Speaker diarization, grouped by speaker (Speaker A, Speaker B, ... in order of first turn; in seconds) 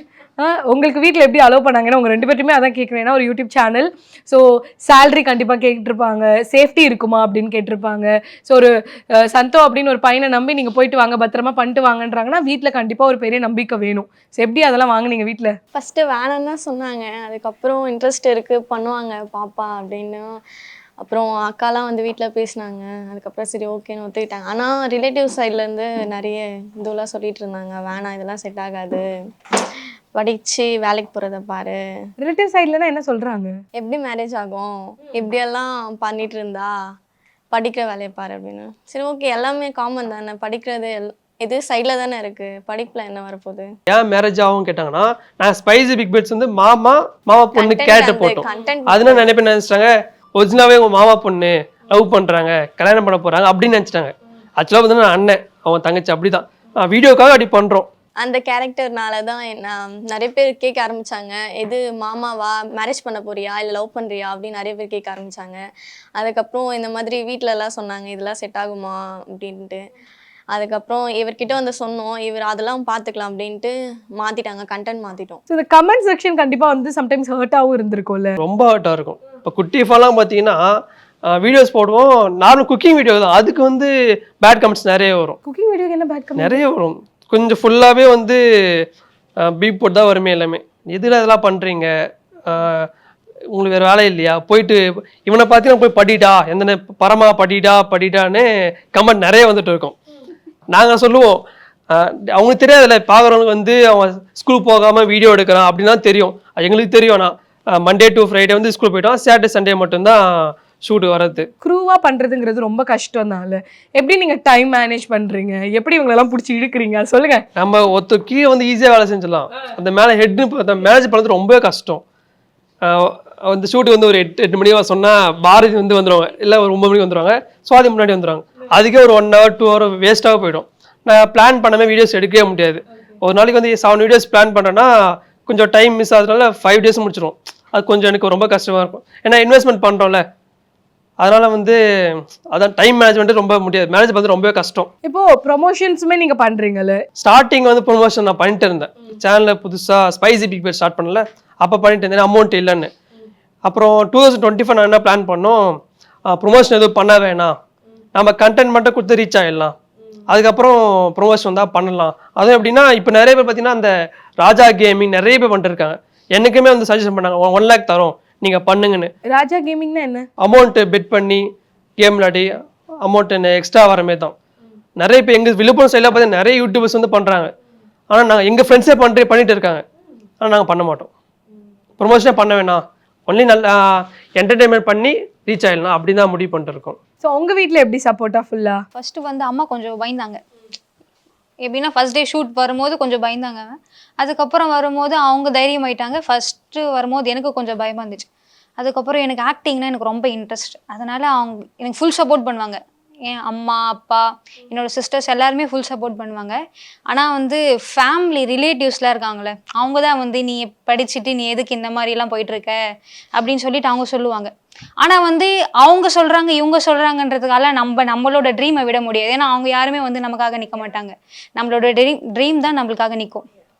Speaker A: 0.4-15.6, 32.2-33.5, 75.5-78.3, 85.4-86.6, 111.6-117.4, 145.0-147.0, 169.2-170.3, 187.2-188.8
Speaker B: 15.7-20.3, 21.0-29.0, 30.1-31.8, 33.8-36.7, 37.5-43.7, 47.5-49.3, 58.2-65.6, 66.2-69.8, 70.5-75.4
Speaker C: 43.9-57.9, 78.4-80.6, 81.3-85.4, 86.4-88.8, 89.4-91.9, 92.5-92.9, 93.5-99.9, 100.7-111.5, 117.5-122.0, 122.8-134.9, 135.4-140.2, 141.2-144.9, 147.2-152.9, 153.6-155.8, 156.3-157.5, 158.2-159.7, 160.3-169.1, 170.4-171.4, 172.0-172.5, 173.0-174.3, 175.0-177.5, 178.1-179.8, 180.4-181.1, 182.0-187.0
Speaker D: 188.9-190.4, 191.6-198.2, 198.8-206.6, 207.1-212.8, 213.3-223.4